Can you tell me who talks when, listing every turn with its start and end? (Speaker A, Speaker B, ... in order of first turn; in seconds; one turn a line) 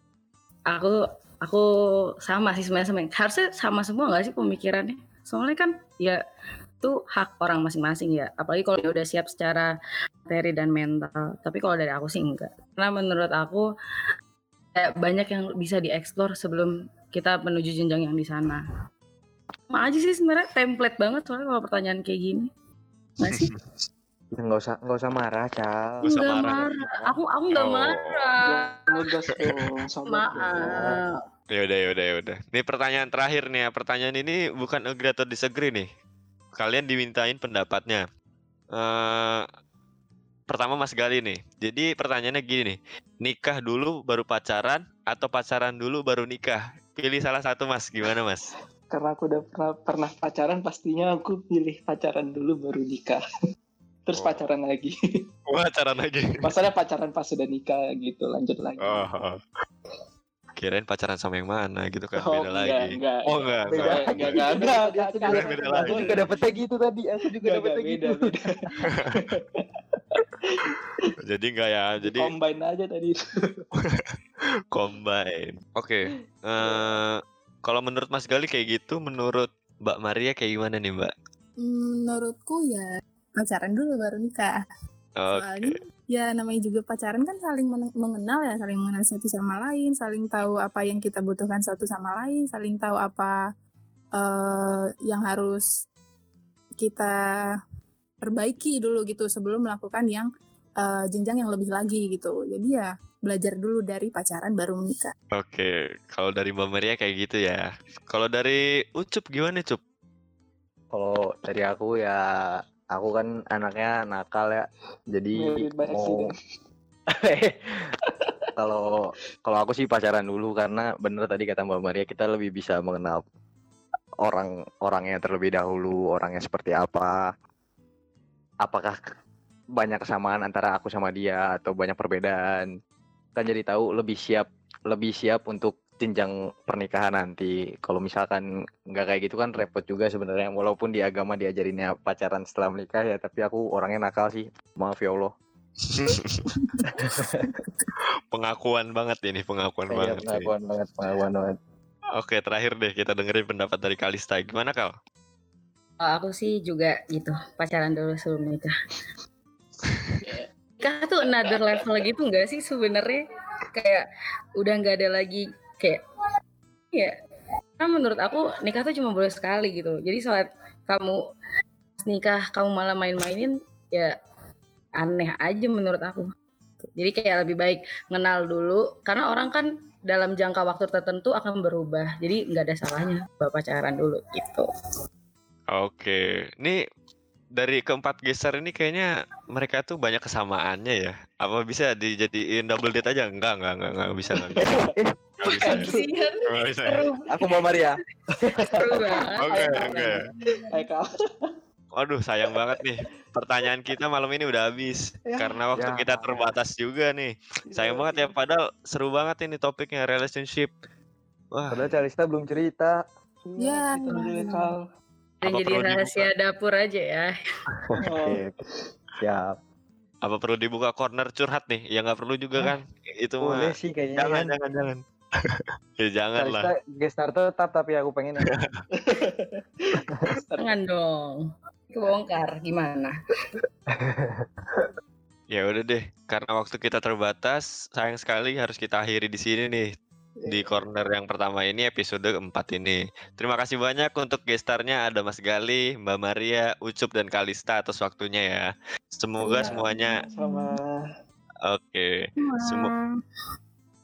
Speaker A: 0.7-1.6
Speaker A: 2.3-6.2
Speaker A: 6.8-9.7
Speaker A: 10.3-13.7
Speaker A: 14.8-18.6
Speaker A: 19.7-22.5
Speaker A: 23.2-23.5
Speaker B: 23.3-23.6
Speaker C: 24.4-26.1
Speaker B: 26.1-28.4
Speaker A: 26.1-29.0
Speaker D: 28.4-30.9
Speaker A: 30.1-31.0
Speaker C: 30.5-31.0
Speaker B: 31.5-35.9
Speaker B: 36.6-38.0
Speaker B: 38.8-39.4
Speaker B: 40.5-48.5
Speaker D: 48.9-53.2
Speaker D: 54.1-54.9
Speaker B: 54.1-54.5
Speaker B: 55.5-56.4
Speaker D: 56.4-59.1
Speaker B: 58.8-59.4
Speaker B: 60.6-64.5
Speaker D: 62.2-66.3
Speaker C: 63.7-68.9
Speaker B: 65.3-66.2
Speaker D: 67.4-71.2
Speaker B: 68.9-69.2
Speaker B: 71.2-72.3
Speaker D: 72.0-73.6
Speaker B: 74.7-81.1
Speaker D: 76.1-77.0
Speaker E: 81.6-82.8
Speaker E: 83.4-84.6
Speaker B: 85.2-85.8
Speaker E: 85.3-93.3
Speaker E: 94.2-95.7
Speaker E: 96.8-97.2
Speaker E: 98.2-100.3
Speaker E: 100.8-105.1
Speaker B: 105.3-109.8
Speaker C: 110.9-112.2
Speaker C: 112.9-116.2
Speaker D: 115.3-116.4
Speaker C: 117.1-117.5
Speaker D: 118.2-118.5
Speaker C: 118.6-123.2
Speaker C: 124.2-127.3
Speaker C: 128.6-129.0
Speaker C: 129.8-132.7
Speaker C: 133.4-145.3
Speaker B: 145.9-146.5
Speaker E: 146.5-147.6
Speaker C: 147.0-147.5
Speaker B: 148.3-150.5
Speaker C: 149.9-151.5
Speaker B: 152.2-154.9
Speaker A: 156.0-158.7
Speaker D: 160.2-160.5
Speaker A: 160.8-163.2
Speaker D: 161.5-161.8
Speaker A: 163.8-164.1
Speaker A: 164.6-166.0
Speaker A: 167.8-171.2
Speaker A: 172.0-174.2
Speaker A: 175.0-176.3
Speaker A: 177.0-184.7
Speaker B: 185.7-186.8
Speaker B: 187.6-194.7
Speaker D: 194.4-194.9
Speaker C: 194.6-195.1
Speaker B: 195.4-195.9
Speaker A: 195.5-197.8
Speaker D: 195.6-196.1
Speaker B: 196.5-197.1
Speaker C: 197.3-199.1
Speaker A: 198.7-200.3
Speaker B: 199.4-200.2
Speaker E: 199.8-200.7
Speaker D: 200.5-201.5
Speaker B: 202.0-210.7
Speaker D: 202.5-202.8
Speaker D: 205.3-205.6
Speaker C: 205.8-206.4
Speaker D: 207.7-208.3
Speaker B: 211.5-211.9
Speaker C: 211.7-212.9
Speaker D: 213.5-214.8
Speaker E: 213.6-214.7
Speaker A: 215.4-217.3
Speaker B: 215.4-216.3
Speaker C: 217.9-218.4
Speaker D: 218.0-218.4
Speaker C: 219.2-219.5
Speaker B: 220.2-226.7
Speaker C: 223.4-224.5
Speaker C: 226.4-228.5
Speaker B: 228.5-228.8
Speaker D: 228.9-230.7
Speaker A: 230.6-233.1
Speaker C: 233.9-234.9
Speaker B: 235.5-239.9
Speaker D: 240.4-240.8
Speaker B: 240.5-250.2
Speaker E: 249.4-250.8
Speaker D: 250.3-251.0
Speaker B: 251.7-252.9
Speaker E: 252.4-253.1